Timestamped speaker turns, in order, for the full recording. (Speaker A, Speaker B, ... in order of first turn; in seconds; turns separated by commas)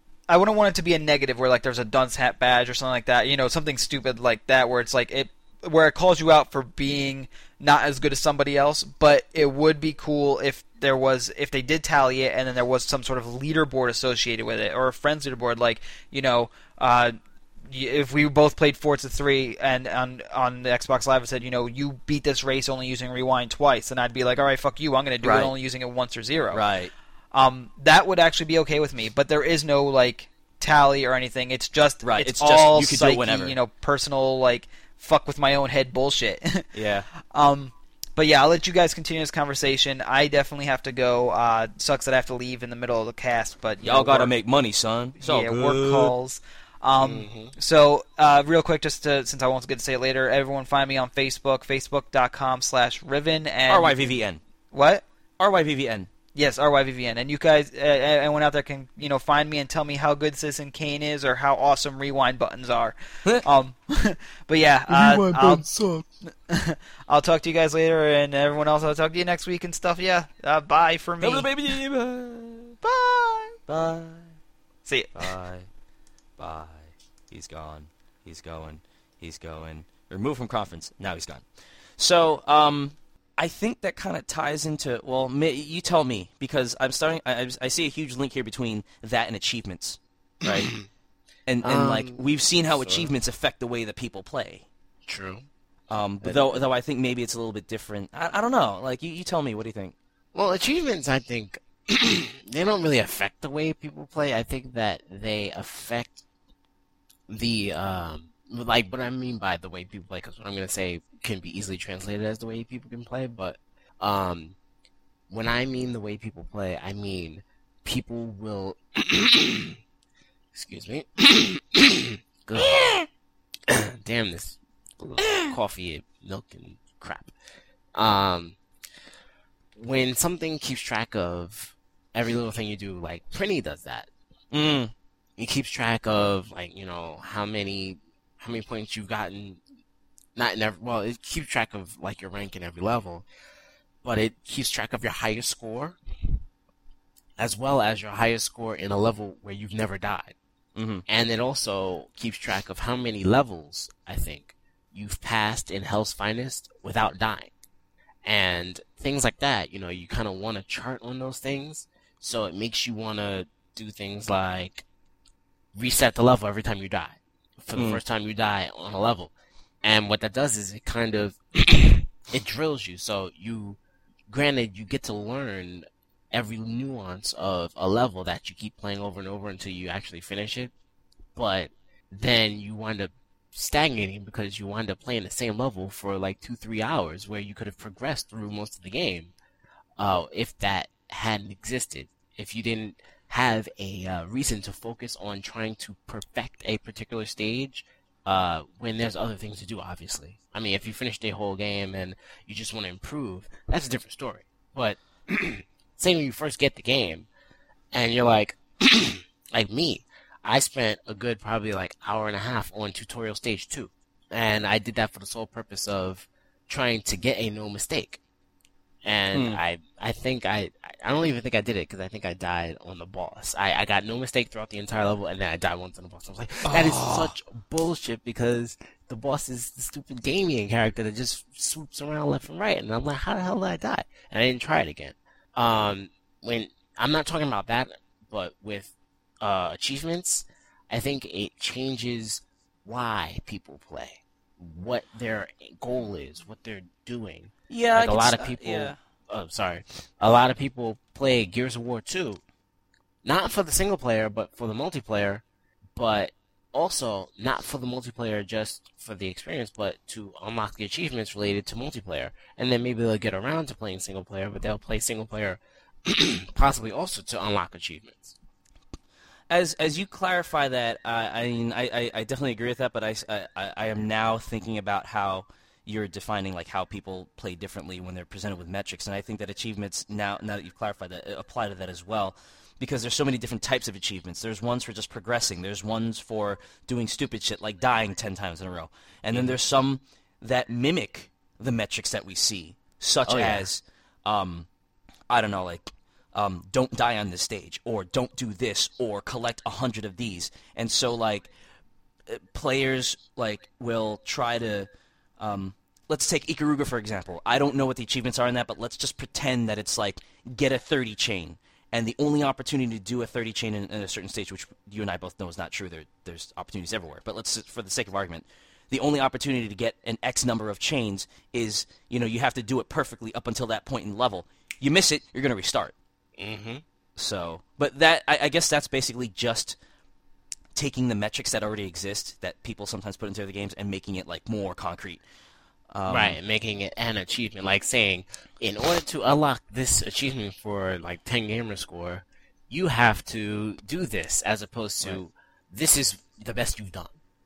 Speaker A: 0.3-17.1, Speaker A: 17.7-26.6, Speaker B: 25.2-25.5, Speaker B: 26.5-26.9, Speaker A: 27.3-36.7, Speaker B: 32.0-33.6, Speaker B: 36.7-37.1, Speaker A: 37.3-44.3, Speaker B: 43.8-46.1, Speaker A: 45.2-54.1, Speaker C: 47.0-47.5, Speaker B: 53.7-54.4, Speaker A: 54.7-55.0, Speaker B: 55.4-56.1, Speaker A: 56.4-65.7, Speaker B: 64.9-66.0, Speaker A: 66.2-71.5, Speaker B: 71.2-72.8, Speaker A: 72.8-73.6, Speaker B: 73.7-74.4, Speaker A: 74.9-75.2, Speaker B: 75.1-75.7, Speaker B: 76.4-81.5, Speaker B: 82.0-90.7, Speaker C: 90.5-90.9, Speaker B: 91.5-94.7, Speaker C: 91.6-93.1, Speaker C: 95.1-95.5, Speaker B: 95.9-100.0, Speaker C: 96.2-96.6, Speaker C: 100.3-106.2, Speaker C: 107.3-114.6, Speaker C: 115.3-119.8, Speaker C: 120.5-123.0, Speaker C: 123.7-127.3, Speaker C: 128.0-128.6, Speaker C: 129.8-134.1, Speaker B: 134.5-134.9, Speaker C: 135.4-139.6, Speaker C: 140.3-143.3, Speaker C: 144.0-146.4, Speaker C: 147.4-150.3, Speaker B: 150.8-151.1, Speaker C: 151.1-157.5, Speaker C: 158.2-164.8, Speaker C: 165.8-180.7, Speaker B: 167.8-168.0, Speaker C: 181.4-189.3, Speaker C: 190.0-207.3, Speaker C: 207.9-218.2, Speaker C: 219.0-252.4, Speaker B: 219.3-219.6, Speaker B: 226.7-227.3, Speaker B: 247.7-249.0, Speaker C: 253.2-255.4, Speaker C: 256.0-268.4, Speaker B: 269.5-294.7, Speaker C: 289.3-289.6, Speaker C: 293.3-293.7, Speaker B: 295.3-301.5, Speaker B: 302.3-325.9, Speaker C: 326.4-326.8, Speaker B: 327.2-329.8, Speaker B: 330.8-335.2, Speaker B: 335.9-336.4, Speaker C: 336.1-347.1